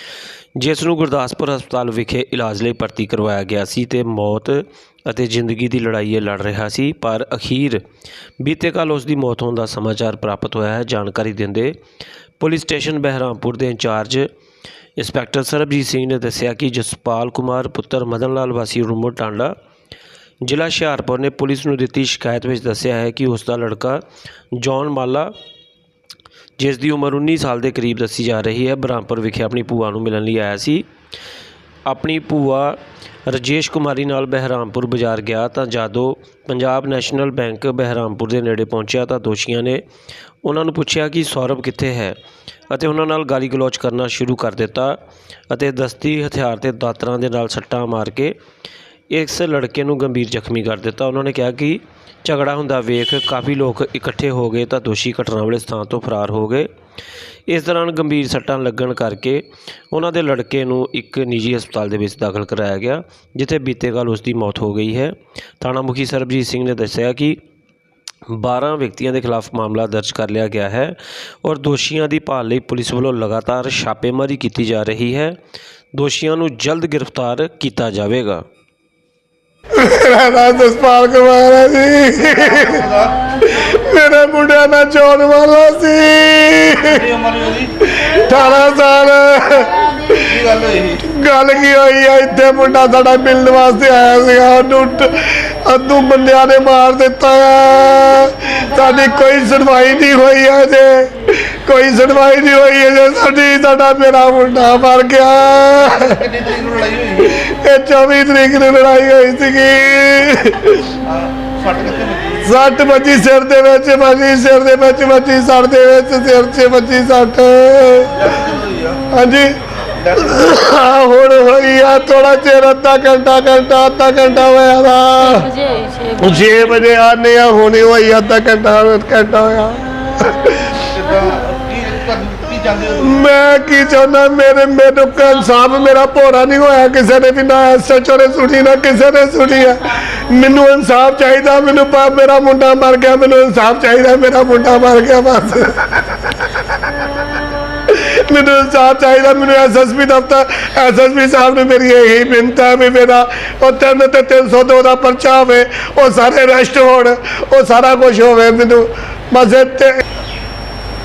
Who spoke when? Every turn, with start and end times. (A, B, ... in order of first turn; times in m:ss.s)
0:00.6-0:07.8 A
0:08.4-0:11.8 A
0:12.4-0:14.3 A
0:15.0-0:19.6 A
0:20.4-0:24.0 A
0:24.6-0:25.3 A
0:26.6-0:30.8 A
0:31.9-0:39.8 A
0:40.4-0:42.2 A
0:42.7-0:45.0 A
0:45.5-0:48.4 A
0:49.1-0:56.7 A
0:57.5-1:07.4 A
1:08.3-1:15.4 A
1:15.9-1:18.4 A
1:19.8-1:27.1 B
1:22.3-1:23.2 C
1:26.8-1:27.8 C
1:27.9-1:29.7 B
1:28.2-1:28.5 D
1:29.6-1:30.3 D
1:30.3-1:31.0 C
1:31.0-1:46.2 B
1:38.6-1:39.3 D
1:45.8-1:47.3 C
1:47.2-1:51.0 B
1:51.0-1:52.5 C
1:52.4-1:58.2 B
1:58.1-1:59.0 C
1:59.1-1:59.5 B
2:00.0-2:00.4 C
2:00.2-2:05.5 B
2:05.3-2:06.6 D
2:06.2-2:10.8 B
2:10.8-2:13.2 C
2:13.0-2:26.3 B
2:27.9-2:40.0 B